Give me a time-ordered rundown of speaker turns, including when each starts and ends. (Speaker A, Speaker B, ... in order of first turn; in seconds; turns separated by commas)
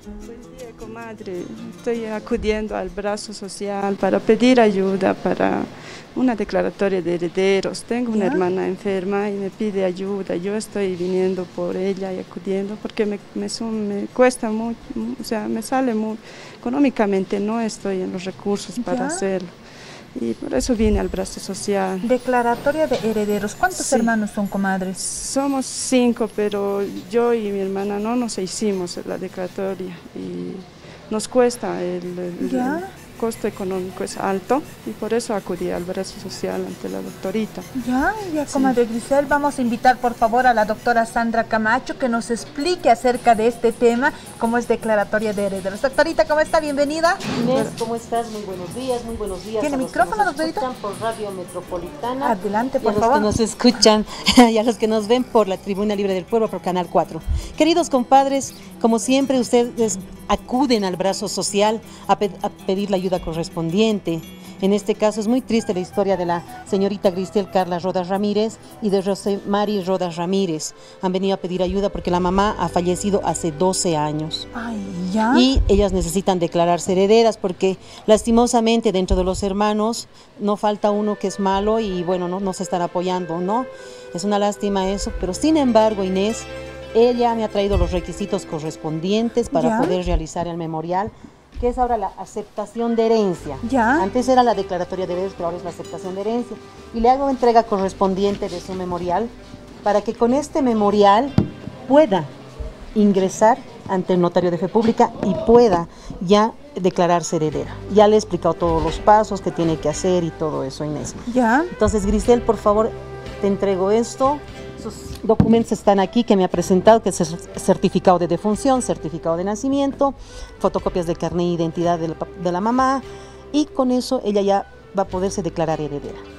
Speaker A: 0.2-19.6, Speaker B: 8.1-8.4, Speaker B: 18.8-19.2, Speaker A: 20.1-22.1, Speaker B: 22.0-25.0, Speaker A: 23.7-24.1, Speaker A: 25.0-37.7, Speaker B: 32.4-32.9, Speaker B: 37.8-47.2, Speaker A: 38.5-38.8, Speaker C: 47.4-74.5, Speaker B: 49.6-50.7, Speaker B: 52.2-53.3, Speaker B: 74.5-75.5, Speaker C: 75.3-99.3, Speaker B: 89.5-90.0, Speaker B: 93.6-94.1, Speaker C: 99.8-101.3, Speaker C: 101.9-102.3, Speaker C: 102.9-126.2, Speaker B: 111.3-111.7